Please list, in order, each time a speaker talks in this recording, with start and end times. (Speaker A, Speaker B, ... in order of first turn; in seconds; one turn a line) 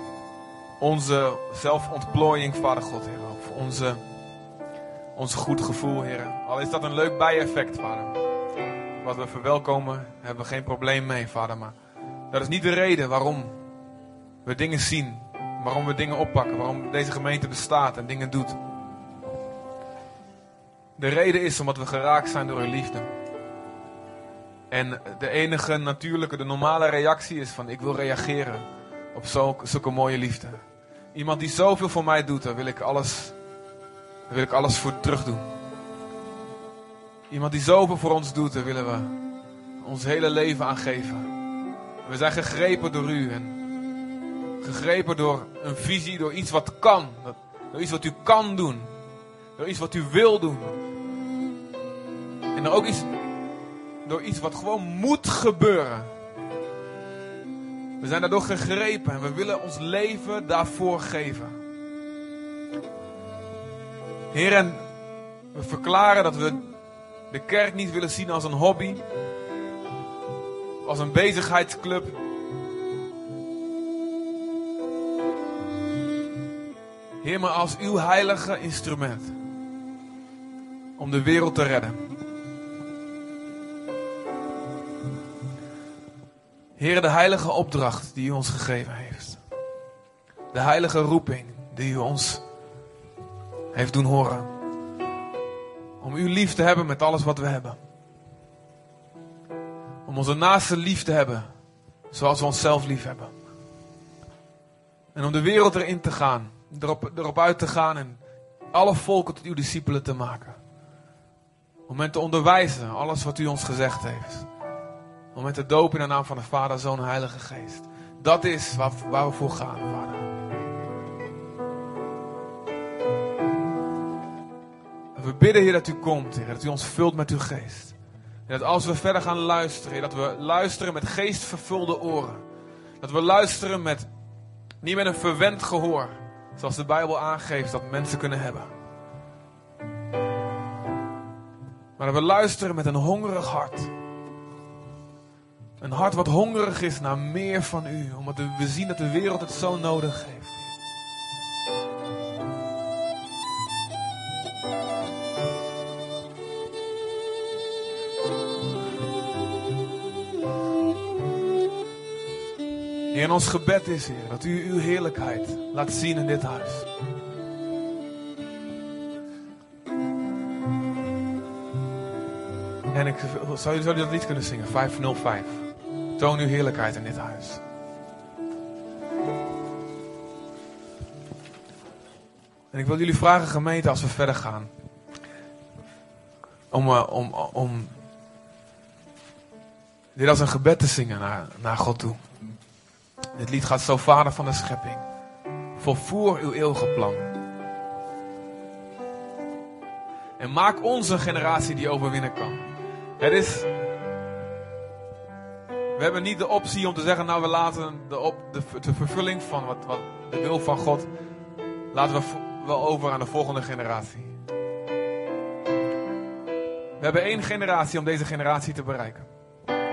Speaker A: 0.8-4.0
Speaker A: 5.1-8.2
Speaker A: 9.0-11.8
Speaker A: 12.3-13.6
Speaker A: 14.4-18.6
Speaker A: 21.0-23.1
Speaker A: 24.7-33.4
Speaker A: 34.3-35.5
Speaker A: 37.3-39.1
Speaker A: 39.8-41.3
Speaker A: 42.0-43.6
Speaker A: 44.6-48.9
Speaker A: 49.5-50.8
Speaker A: 52.5-53.1
Speaker A: 54.0-56.1
Speaker A: 58.0-61.5
Speaker A: 64.3-64.8
Speaker A: 65.5-66.7
Speaker A: 67.3-69.0
Speaker A: 70.8-72.2
Speaker A: 77.2-79.3
Speaker A: 81.0-82.0
Speaker A: 86.8-89.4
Speaker A: 90.5-92.4
Speaker A: 93.7-94.5
Speaker A: 96.0-97.8
Speaker A: 100.0-101.5
Speaker A: 102.1-103.3
Speaker A: 105.1-110.6
Speaker A: 111.9-114.5
Speaker A: 115.3-120.3
Speaker A: 125.2-132.4
Speaker A: 133.0-134.1
Speaker A: 134.8-138.7
Speaker A: 142.0-143.9
Speaker A: 145.8-150.7
Speaker A: 163.1-166.9
Speaker A: 172.9-177.6
Speaker A: 182.7-184.7
Speaker A: 186.7-187.9
Speaker A: 190.1-192.2
Speaker A: 193.3-195.0
Speaker A: 195.8-197.2
Speaker A: 200.4-202.6
Speaker A: 203.2-203.7
Speaker A: 206.0-211.1
Speaker A: 211.9-214.3
Speaker A: 217.0-219.3